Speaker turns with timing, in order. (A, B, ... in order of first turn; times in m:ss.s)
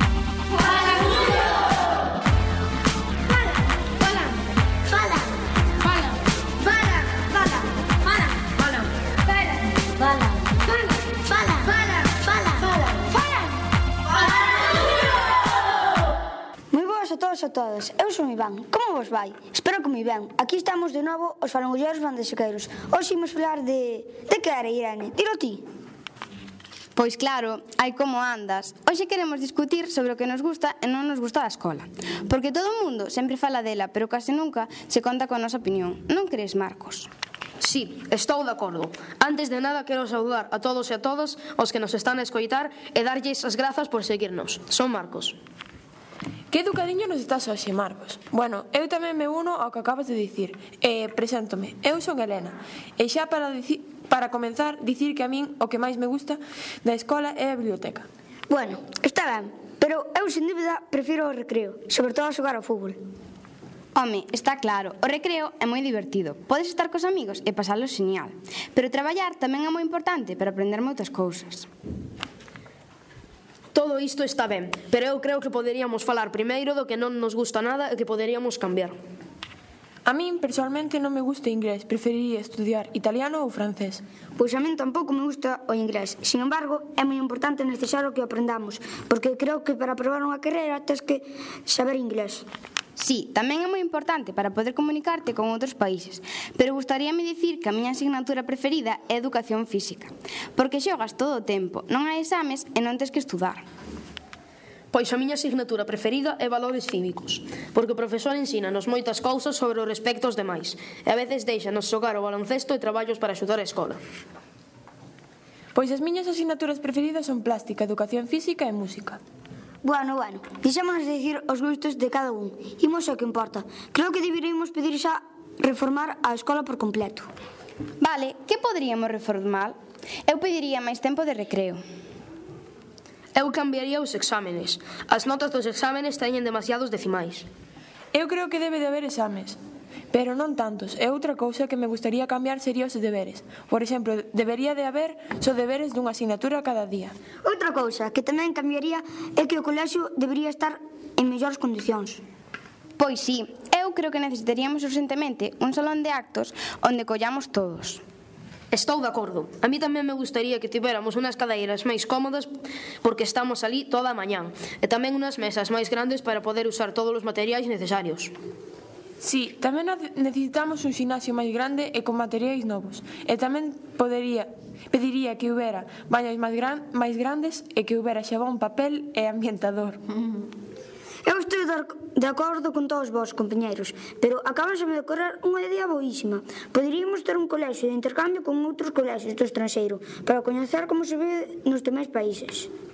0:00.8-0:01.0 A
0:04.9-0:05.4 A
0:06.6-0:07.7 A
0:10.0-0:13.5 A
0:16.7-0:25.6 A
0:27.0-0:37.1 B
0:37.6-0:45.4 C
0:46.5-0:58.1 D
0:58.5-1:03.0 A
1:04.0-1:11.7 B
1:13.7-1:19.0 C
1:20.0-1:24.0 D
1:24.4-1:32.5 A
1:33.0-1:43.7 B
1:44.9-1:54.0 C
1:55.7-1:59.2 D
1:59.8-2:07.3 A
2:08.0-2:11.8 B
2:13.4-2:17.5 C
2:18.1-2:19.6 D
2:20.1-2:27.1 D
2:27.4-2:32.2 A
2:33.0-2:38.0 B
2:38.7-2:42.5 C
2:43.0-2:48.3 C
2:49.2-3:00.0 D
3:01.2-3:12.7 A